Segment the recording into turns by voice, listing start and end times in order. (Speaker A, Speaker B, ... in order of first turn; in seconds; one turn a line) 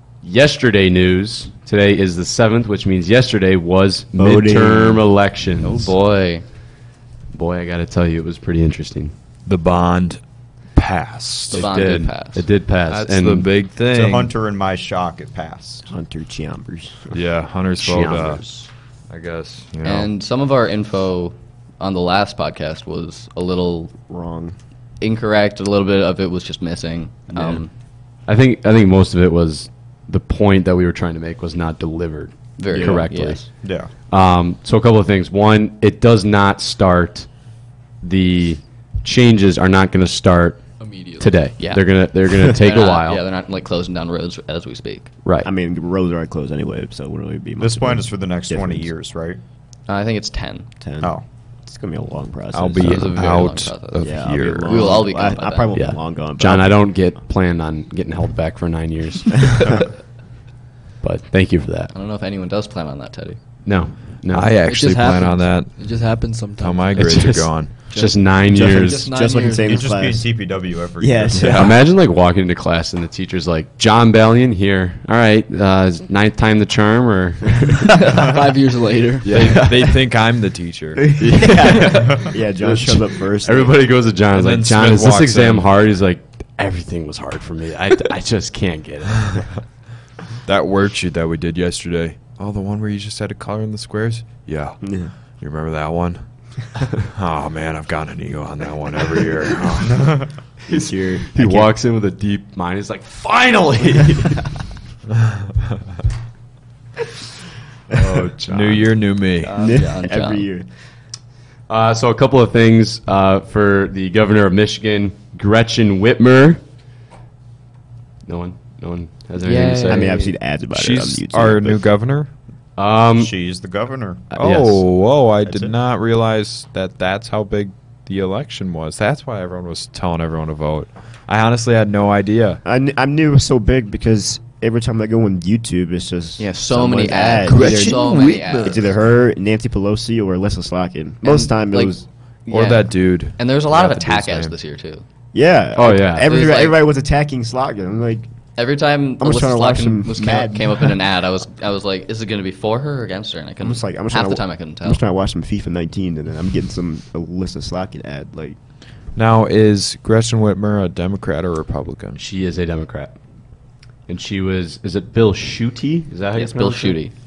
Speaker A: 0.2-6.0
Speaker B: 4.1-5.1
Speaker C: 5.6-6.5
Speaker A: 7.3-9.2
Speaker D: 9.5-11.7
Speaker A: 11.5-13.5
Speaker C: 11.5-12.5
Speaker D: 12.9-14.3
Speaker E: 13.9-15.9
Speaker B: 15.9-17.2
Speaker D: 17.1-18.4
Speaker A: 17.8-18.7
Speaker D: 19.1-20.1
Speaker C: 19.8-24.0
Speaker B: 24.1-24.6
Speaker C: 25.0-27.7
Speaker B: 27.3-27.6
Speaker A: 28.2-33.5
Speaker C: 32.6-33.5
Speaker B: 32.7-33.0
Speaker E: 33.6-33.9
Speaker A: 34.1-37.3
Speaker A: 38.0-43.2
Speaker F: 40.8-41.4
Speaker C: 41.6-45.1
Speaker A: 45.2-45.5
Speaker B: 45.4-48.9
Speaker E: 47.6-49.4
Speaker C: 49.9-50.7
Speaker B: 50.8-53.1
Speaker D: 52.5-54.9
Speaker C: 52.8-55.8
Speaker A: 52.8-53.1
Speaker B: 54.0-56.8
Speaker A: 55.7-59.8
Speaker A: 61.0-61.9
Speaker C: 61.9-63.4
Speaker A: 63.6-64.6
Speaker D: 64.3-67.9
Speaker F: 64.7-67.3
Speaker A: 67.0-69.1
Speaker F: 67.9-69.8
Speaker B: 68.5-71.7
Speaker E: 69.7-71.6
Speaker D: 71.4-71.7
Speaker A: 71.4-77.8
Speaker F: 78.0-79.6
Speaker D: 79.2-81.6
Speaker A: 79.3-79.6
Speaker B: 79.4-79.8
Speaker B: 81.0-83.8
Speaker A: 81.2-89.5
Speaker D: 84.3-85.7
Speaker D: 90.5-96.2
Speaker B: 94.8-95.1
Speaker D: 96.8-100.0
Speaker E: 99.8-100.3
Speaker B: 100.7-101.7
Speaker A: 100.7-104.5
Speaker B: 107.9-108.3
Speaker D: 108.2-109.5
Speaker A: 108.2-108.9
Speaker C: 109.4-110.5
Speaker B: 109.5-110.7
Speaker A: 111.7-116.6
Speaker A: 118.3-120.2
Speaker C: 119.4-120.3
Speaker B: 119.9-121.8
Speaker D: 120.7-122.3
Speaker A: 122.8-123.3
Speaker E: 123.2-124.3
Speaker A: 124.3-124.8
Speaker D: 124.3-132.6
Speaker E: 125.5-125.7
Speaker B: 132.7-142.0
Speaker C: 136.4-138.9
Speaker F: 137.9-138.5
Speaker C: 141.2-145.0
Speaker D: 142.5-144.6
Speaker B: 145.3-148.3
Speaker A: 145.8-146.3
Speaker C: 146.2-146.8
Speaker C: 148.6-155.0
Speaker B: 149.2-151.0
Speaker B: 153.6-158.6
Speaker D: 159.2-162.2
Speaker A: 162.2-163.2
Speaker A: 164.1-167.0
Speaker C: 166.3-167.1